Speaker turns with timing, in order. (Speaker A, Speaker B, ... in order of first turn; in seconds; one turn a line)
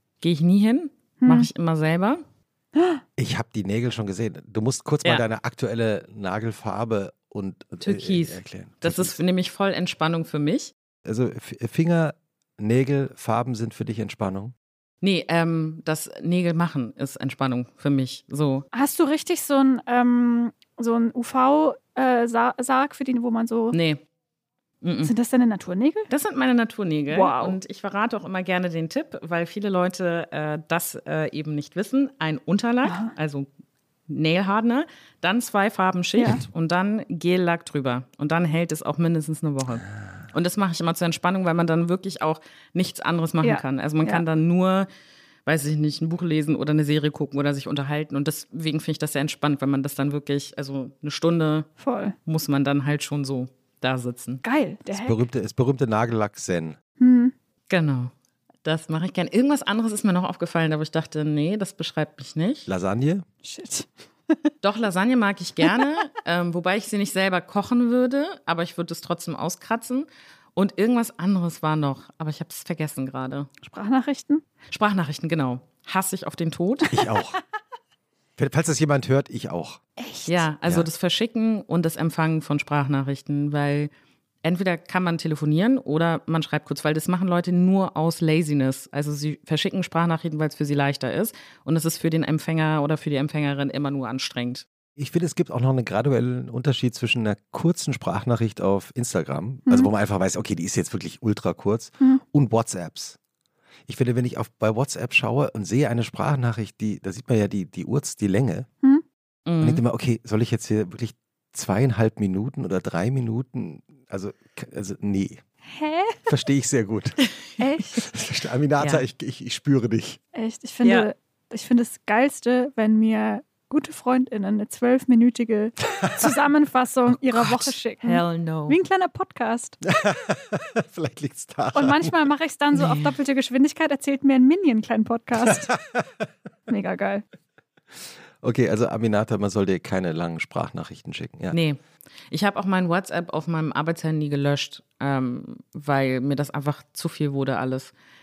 Speaker A: 0.2-2.2
Speaker B: 1.2-1.5
Speaker B: 2.8-3.0
Speaker C: 3.2-9.2
Speaker A: 7.8-10.7
Speaker C: 11.1-14.5
Speaker A: 15.0-18.6
Speaker B: 18.7-23.8
Speaker A: 23.7-24.0
Speaker A: 24.8-25.1
Speaker B: 25.0-26.1
Speaker A: 26.1-33.5
Speaker B: 27.1-27.6
Speaker B: 32.8-33.1
Speaker A: 34.1-44.9
Speaker B: 43.4-44.2
Speaker A: 45.5-51.7
Speaker B: 51.8-52.1
Speaker A: 52.2-54.4
Speaker B: 54.4-55.2
Speaker C: 54.9-56.8
Speaker B: 57.0-57.3
Speaker A: 57.7-58.1
Speaker A: 58.6-62.7
Speaker C: 62.7-63.2
Speaker B: 63.4-64.5
Speaker A: 64.6-73.5
Speaker B: 73.6-74.4
Speaker A: 74.7-77.0
Speaker C: 76.9-77.4
Speaker C: 78.4-79.8
Speaker B: 80.0-80.4
Speaker A: 80.2-83.9
Speaker A: 84.4-94.7
Speaker C: 95.0-103.2
Speaker C: 103.9-108.7
Speaker A: 109.5-109.8
Speaker C: 109.6-115.4
Speaker B: 115.7-116.2
Speaker C: 116.2-117.2
Speaker B: 117.6-118.0
Speaker C: 118.0-120.2
Speaker A: 118.8-119.0
Speaker B: 120.3-129.8
Speaker A: 120.8-121.1
Speaker A: 127.3-128.8
Speaker C: 129.8-132.1
Speaker B: 131.7-135.7
Speaker A: 132.7-133.2
Speaker C: 135.5-136.1
Speaker B: 136.7-137.2
Speaker C: 138.4-141.6
Speaker A: 141.5-147.9